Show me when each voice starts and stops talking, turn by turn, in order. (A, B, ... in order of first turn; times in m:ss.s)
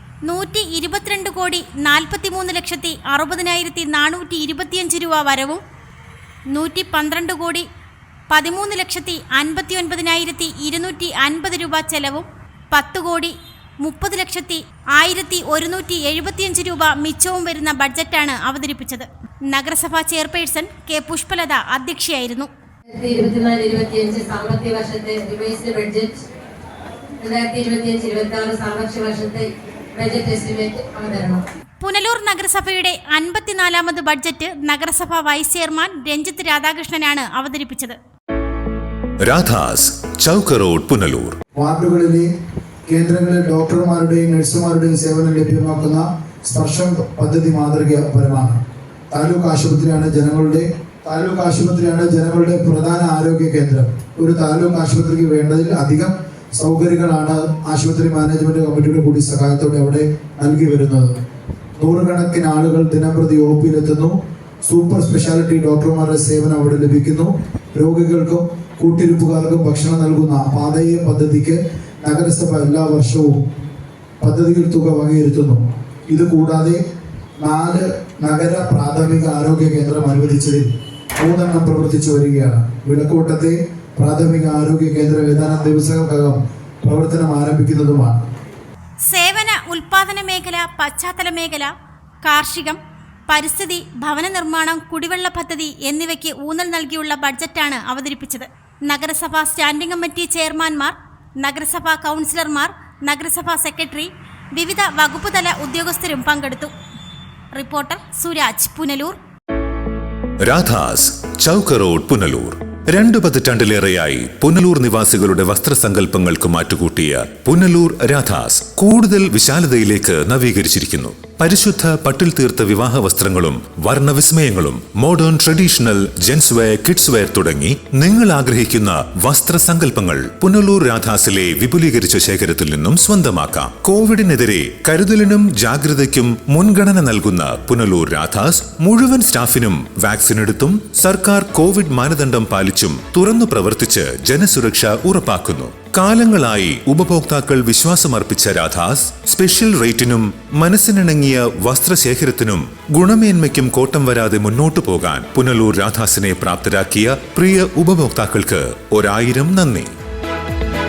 0:00.2-0:05.6 A
0:06.5-0:07.6 A
0:08.3-0:22.5 A
0:22.9-0:26.2 B
0:27.2-0:31.4 B
0:31.8-0:38.0 A
0:39.3-0:41.4 C
0:41.6-0:42.3 D
0:42.9-0:48.6 D
0:49.1-1:01.1 D
1:01.8-1:13.4 D
1:14.2-1:16.8 D
1:17.4-1:28.2 D
1:29.1-1:31.7 A
1:32.2-1:46.7 A
1:47.5-1:49.2 A
1:50.5-2:39.9 C